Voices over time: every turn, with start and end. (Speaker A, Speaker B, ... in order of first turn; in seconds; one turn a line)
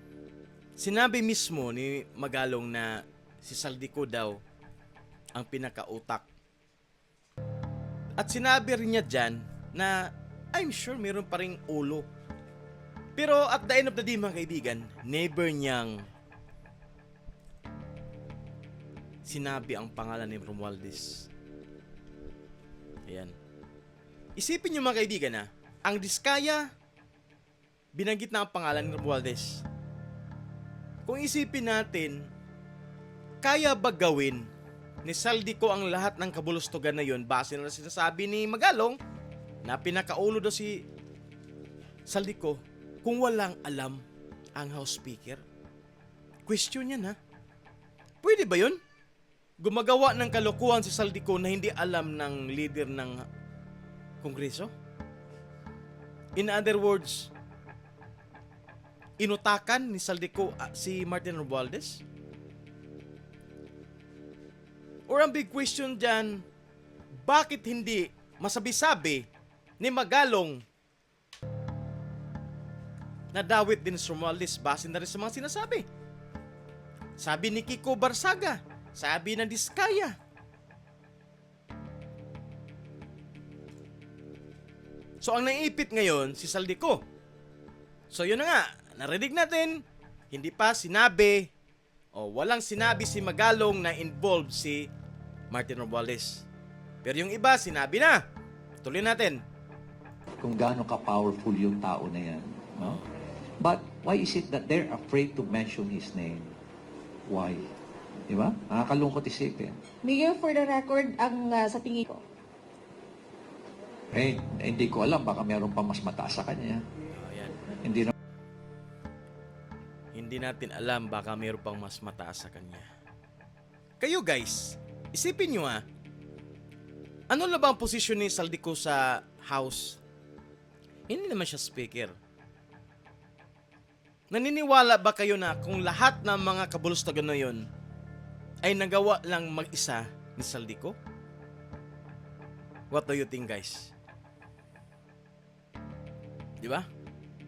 Speaker A: 0.8-4.4
Speaker A: 5.3-6.2
Speaker A: 8.2-12.1
Speaker A: 13.2-16.0
Speaker A: 19.2-21.3
Speaker A: 23.1-23.3
Speaker A: 24.4-26.7
Speaker A: 27.9-29.6
Speaker A: 31.1-32.3
Speaker A: 33.4-34.5
Speaker A: 35.0-39.0
Speaker A: 39.6-40.8
Speaker A: 42.0-44.0
Speaker A: 44.5-45.4
Speaker A: 46.5-47.2
Speaker A: 48.2-48.8
Speaker A: 49.6-53.2
Speaker A: 54.2-54.7
Speaker A: 56.4-57.3
Speaker A: 59.2-62.0
Speaker A: 65.1-66.4
Speaker A: 67.2-69.2
Speaker A: 69.8-70.6
Speaker A: 73.3-75.8
Speaker A: 77.2-80.2
Speaker A: 85.2-87.0
Speaker A: 88.1-91.5
Speaker A: 92.1-94.9
Speaker A: 95.5-96.5
Speaker A: 97.0-98.2
Speaker A: 98.8-99.4
Speaker B: 100.4-103.0
Speaker B: 103.6-106.5
Speaker B: 107.3-107.7
Speaker B: 108.3-109.8
Speaker C: 110.0-112.2
Speaker B: 114.1-116.8
Speaker A: 117.2-117.6
Speaker B: 117.8-118.1
Speaker A: 120.1-122.9
Speaker A: 124.0-125.8
Speaker A: 127.3-130.0
Speaker A: 131.1-132.1
Speaker A: 134.3-137.7
Speaker A: 138.6-140.9
Speaker A: 142.9-143.9
Speaker A: 146.6-146.9